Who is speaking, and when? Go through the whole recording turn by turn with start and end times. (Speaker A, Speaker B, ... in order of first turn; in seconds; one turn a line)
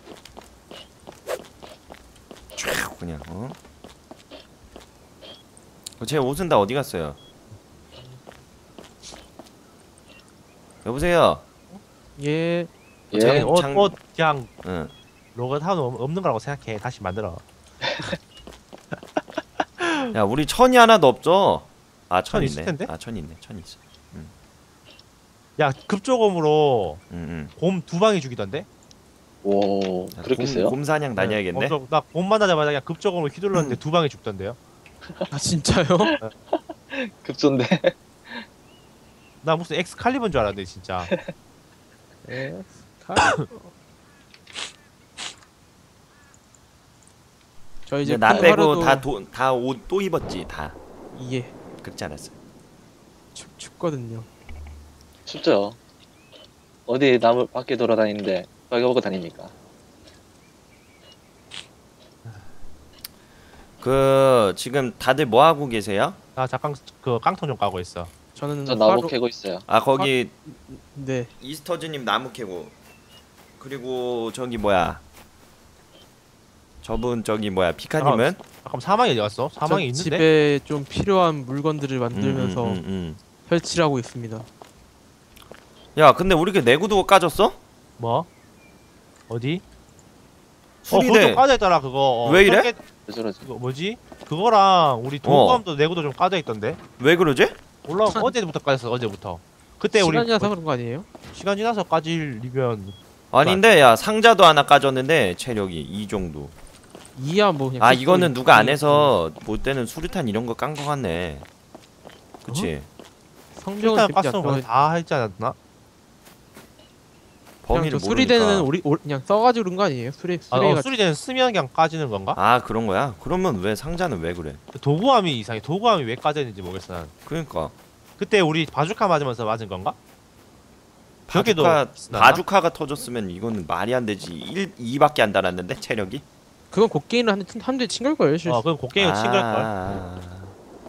Speaker A: 2.5-3.5
Speaker A: 6.0-7.2
Speaker A: 10.8-11.4
Speaker B: 11.7-13.6
Speaker C: 13.1-13.5
Speaker A: 13.1-13.9
Speaker D: 13.1-14.5
Speaker A: 14.6-14.9
Speaker D: 15.3-17.4
Speaker D: 19.8-20.1
Speaker A: 20.1-24.3
Speaker D: 22.3-22.9
Speaker D: 25.6-27.0
Speaker A: 27.1-27.5
Speaker D: 27.6-28.7
Speaker C: 29.4-30.7
Speaker A: 30.1-31.8
Speaker D: 31.2-34.6
Speaker B: 35.3-36.1
Speaker C: 36.0-38.5
Speaker D: 39.4-41.1
Speaker B: 42.2-43.7
Speaker B: 47.9-49.1
Speaker A: 48.0-50.8
Speaker C: 48.3-48.6
Speaker B: 51.1-51.5
Speaker A: 51.8-52.3
Speaker B: 53.3-54.3
Speaker C: 55.2-55.8
Speaker C: 56.9-59.5
Speaker A: 63.8-66.2
Speaker D: 66.3-68.1
Speaker B: 68.3-69.1
Speaker C: 68.7-69.6
Speaker A: 69.7-70.3
Speaker B: 70.0-71.3
Speaker A: 71.4-72.7
Speaker A: 73.6-75.0
Speaker A: 76.8-78.4
Speaker D: 78.0-80.3
Speaker B: 79.6-82.8
Speaker A: 82.1-83.2
Speaker B: 83.5-84.5
Speaker A: 85.9-87.6
Speaker D: 88.0-88.3
Speaker D: 89.3-89.6
Speaker D: 90.8-92.8
Speaker A: 90.9-91.4
Speaker A: 92.2-92.7
Speaker C: 93.1-93.5
Speaker D: 93.4-96.8
Speaker A: 95.2-95.6
Speaker A: 97.0-97.6
Speaker D: 97.8-100.5
Speaker B: 98.0-98.3
Speaker B: 99.9-101.1
Speaker D: 101.3-103.8
Speaker A: 103.3-106.5
Speaker B: 107.2-109.2
Speaker A: 107.8-111.5
Speaker B: 112.4-112.7
Speaker A: 112.4-112.9
Speaker B: 113.5-114.7
Speaker D: 113.8-115.5
Speaker A: 117.6-118.7
Speaker B: 117.7-120.9
Speaker D: 120.5-122.4
Speaker A: 122.3-124.6
Speaker D: 124.7-127.1
Speaker A: 127.2-127.7
Speaker D: 128.2-130.0
Speaker A: 131.3-136.2
Speaker D: 131.3-132.4
Speaker B: 136.7-138.6
Speaker D: 138.4-139.7
Speaker A: 138.9-140.5